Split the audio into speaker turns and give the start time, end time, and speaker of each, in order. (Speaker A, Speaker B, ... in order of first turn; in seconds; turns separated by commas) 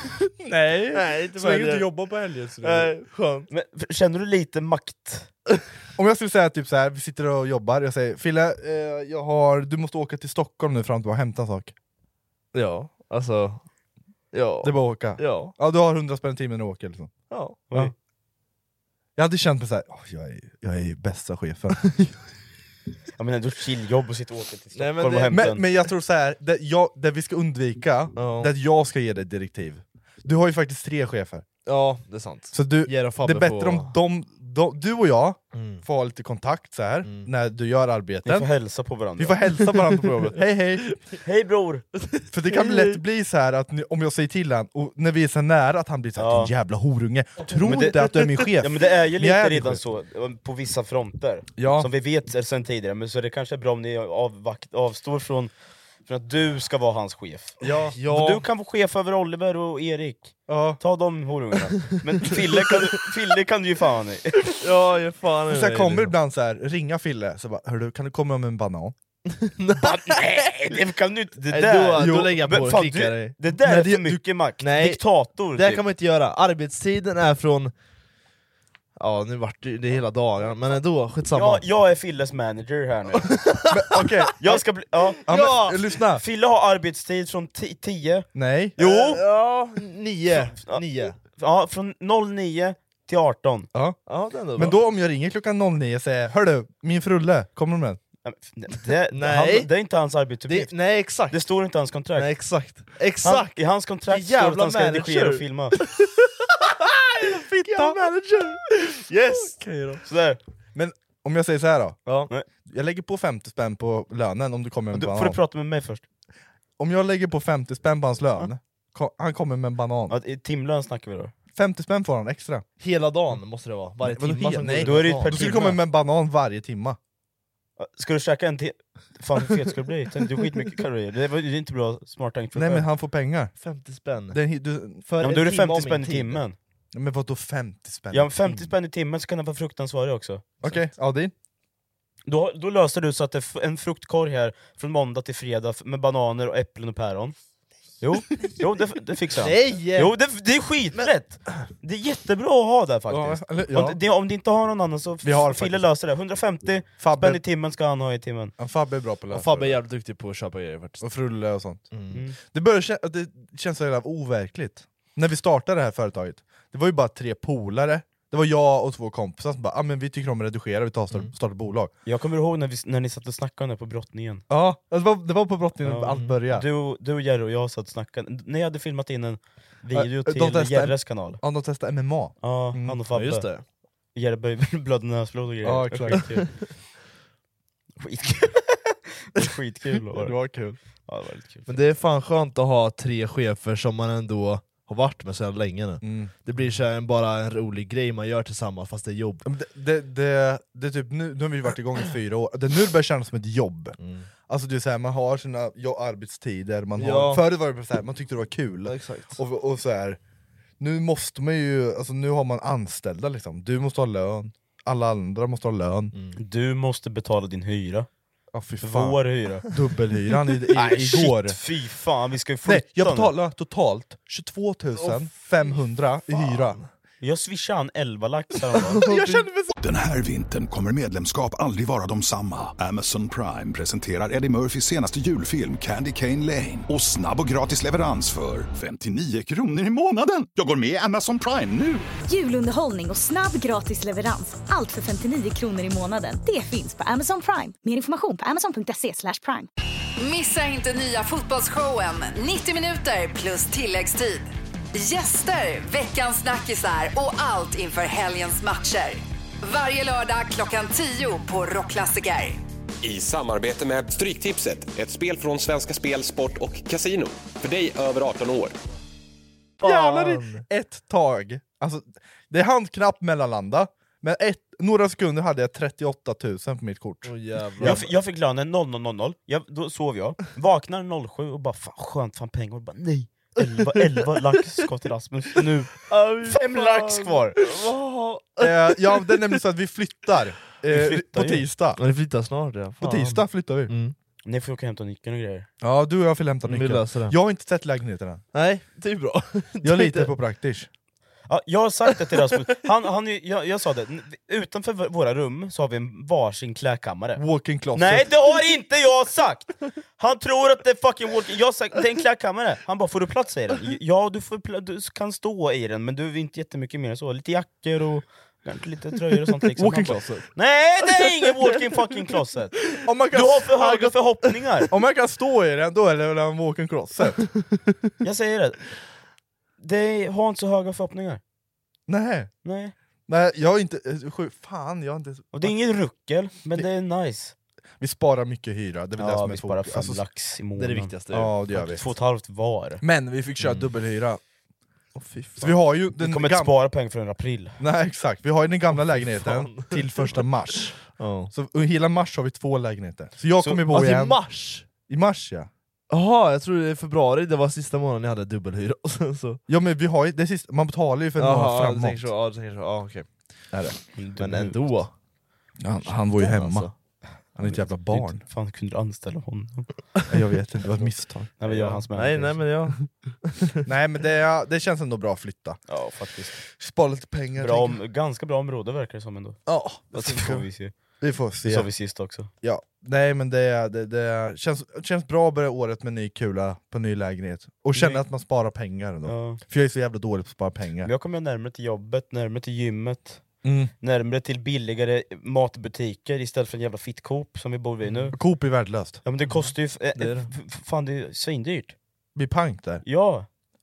Speaker A: 0.4-2.9, Speaker B: 0.9-1.9, Speaker B: 2.6-3.5, Speaker C: 3.5-5.3, Speaker A: 6.0-11.7, Speaker B: 12.5-13.6, Speaker B: 14.3-15.5, Speaker A: 14.6-17.1, Speaker B: 17.3-17.6, Speaker A: 19.1-21.9, Speaker C: 23.2-25.6, Speaker B: 24.7-25.4, Speaker A: 25.3-31.5, Speaker B: 28.2-28.5, Speaker B: 31.6-33.9, Speaker A: 32.5-38.5, Speaker B: 35.5-35.8, Speaker C: 38.2-39.4, Speaker A: 39.2-40.9, Speaker B: 40.9-41.1, Speaker C: 41.2-41.9, Speaker B: 42.0-43.0, Speaker A: 42.3-49.8, Speaker C: 46.2-46.5, Speaker C: 47.6-55.5, Speaker B: 47.7-48.5, Speaker A: 51.6-51.9, Speaker C: 56.0-64.6, Speaker A: 57.6-58.0, Speaker B: 57.9-58.4, Speaker A: 60.5-60.8, Speaker B: 64.6-66.1, Speaker A: 65.5-68.9, Speaker B: 69.3-70.3, Speaker C: 69.8-75.8, Speaker B: 71.5-73.3, Speaker A: 72.0-72.4, Speaker A: 73.5-74.2, Speaker B: 74.6-75.0, Speaker B: 75.5-77.7, Speaker B: 79.0-81.6, Speaker C: 81.3-83.4, Speaker B: 83.2-84.3, Speaker A: 83.7-84.5, Speaker C: 84.4-85.2, Speaker B: 85.2-85.8, Speaker A: 85.3-86.2, Speaker C: 86.1-88.3, Speaker A: 88.3-88.8, Speaker C: 88.8-89.2, Speaker B: 88.8-91.2, Speaker C: 90.3-90.8, Speaker C: 91.4-93.7, Speaker B: 94.1-94.8, Speaker A: 94.5-98.0, Speaker C: 98.2-100.8, Speaker B: 99.1-99.7, Speaker B: 100.5-101.4, Speaker C: 101.3-102.3, Speaker B: 102.1-103.5, Speaker C: 103.2-105.8, Speaker B: 104.1-110.0, Speaker A: 107.2-108.0, Speaker C: 110.0-110.4, Speaker A: 110.8-112.0, Speaker A: 112.7-115.4, Speaker C: 114.9-116.0, Speaker A: 116.8-120.2, Speaker C: 120.1-121.3, Speaker A: 121.5-122.6, Speaker B: 122.8-125.6, Speaker A: 124.0-127.0, Speaker C: 124.8-125.8, Speaker C: 127.8-132.9, Speaker A: 132.5-133.5, Speaker B: 133.6-134.4, Speaker A: 134.3-135.2, Speaker B: 135.1-136.4, Speaker C: 135.2-136.6, Speaker A: 136.9-138.7, Speaker C: 138.1-140.7, Speaker A: 140.6-141.3, Speaker C: 142.3-147.3, Speaker C: 148.0-158.5, Speaker B: 149.4-150.1, Speaker B: 150.9-151.6, Speaker A: 153.1-154.0, Speaker A: 155.2-155.9, Speaker A: 157.0-157.4, Speaker A: 158.6-159.8, Speaker B: 159.3-161.1, Speaker A: 161.0-161.9, Speaker B: 161.9-162.2, Speaker A: 162.4-171.9, Speaker C: 172.1-174.4, Speaker A: 174.5-176.6, Speaker C: 175.8-181.4, Speaker A: 179.9-183.0, Speaker C: 182.4-183.5, Speaker B: 183.1-183.6, Speaker C: 184.1-186.5, Speaker A: 185.6-186.3, Speaker B: 186.1-186.5, Speaker C: 188.0-190.4, Speaker A: 190.2-190.8, Speaker C: 191.1-191.7, Speaker B: 191.7-199.4, Speaker A: 196.0-196.3, Speaker A: 199.4-203.9, Speaker B: 204.0-204.3, Speaker A: 204.5-210.2, Speaker B: 207.0-207.4, Speaker B: 208.9-209.4, Speaker A: 210.8-216.1, Speaker C: 216.4-218.1, Speaker A: 218.5-219.2, Speaker C: 218.8-219.7, Speaker A: 219.7-221.6, Speaker C: 220.7-223.3, Speaker A: 222.6-226.8, Speaker B: 225.0-225.3, Speaker B: 226.3-226.9, Speaker C: 227.2-229.0, Speaker B: 228.8-229.5, Speaker A: 229.0-229.7, Speaker D: 229.8-242.1, Speaker E: 242.3-249.7, Speaker F: 250.2-262.6, Speaker G: 263.0-268.8, Speaker B: 269.8-270.6, Speaker A: 269.8-278.0, Speaker B: 277.2-278.1, Speaker C: 277.8-287.7, Speaker B: 286.1-289.3, Speaker A: 288.6-292.0, Speaker C: 290.9-291.6, Speaker B: 292.0-294.1, Speaker A: 293.0-293.9, Speaker C: 294.4-295.7, Speaker A: 295.8-298.4, Speaker B: 296.6-297.4, Speaker B: 298.5-300.3, Speaker A: 299.8-300.9, Speaker C: 301.5-307.4, Speaker A: 307.4-308.3, Speaker C: 307.9-322.8, Speaker A: 319.8-320.2, Speaker B: 319.9-320.4, Speaker A: 323.0-324.1, Speaker C: 323.3-324.9, Speaker A: 324.9-327.4, Speaker C: 328.2-328.9, Speaker C: 329.8-331.4, Speaker A: 332.1-332.5, Speaker C: 332.6-332.9, Speaker A: 333.3-335.7, Speaker C: 335.5-337.5, Speaker A: 338.0-340.2, Speaker C: 339.2-341.1, Speaker B: 340.8-341.6, Speaker A: 341.3-342.0, Speaker C: 341.7-343.0, Speaker A: 343.0-344.4, Speaker B: 343.6-343.9, Speaker B: 345.1-345.7, Speaker A: 345.6-346.7, Speaker C: 346.2-347.8, Speaker A: 347.8-355.7, Speaker B: 349.0-350.0, Speaker B: 351.0-351.5, Speaker B: 353.9-354.9, Speaker B: 356.1-359.6, Speaker A: 359.7-362.3, Speaker B: 361.4-363.3, Speaker C: 364.2-364.9, Speaker B: 364.4-365.1, Speaker A: 365.8-366.9, Speaker B: 366.1-366.9, Speaker A: 367.6-368.4, Speaker C: 367.6-369.9, Speaker A: 370.3-371.5, Speaker C: 371.6-372.6, Speaker B: 371.6-373.9, Speaker A: 373.9-375.8, Speaker C: 375.9-376.6, Speaker A: 376.7-377.9, Speaker C: 377.6-379.6, Speaker A: 379.7-380.6, Speaker C: 380.1-380.9, Speaker A: 381.2-381.9, Speaker C: 381.6-382.5, Speaker A: 382.6-391.1, Speaker C: 387.9-388.2, Speaker C: 389.2-389.6, Speaker C: 391.0-393.4, Speaker A: 393.6-393.9, Speaker C: 394.0-398.4, Speaker B: 398.0-398.3, Speaker A: 398.3-399.2, Speaker C: 399.2-401.9, Speaker B: 399.5-400.5, Speaker A: 402.4-403.0, Speaker C: 403.0-403.5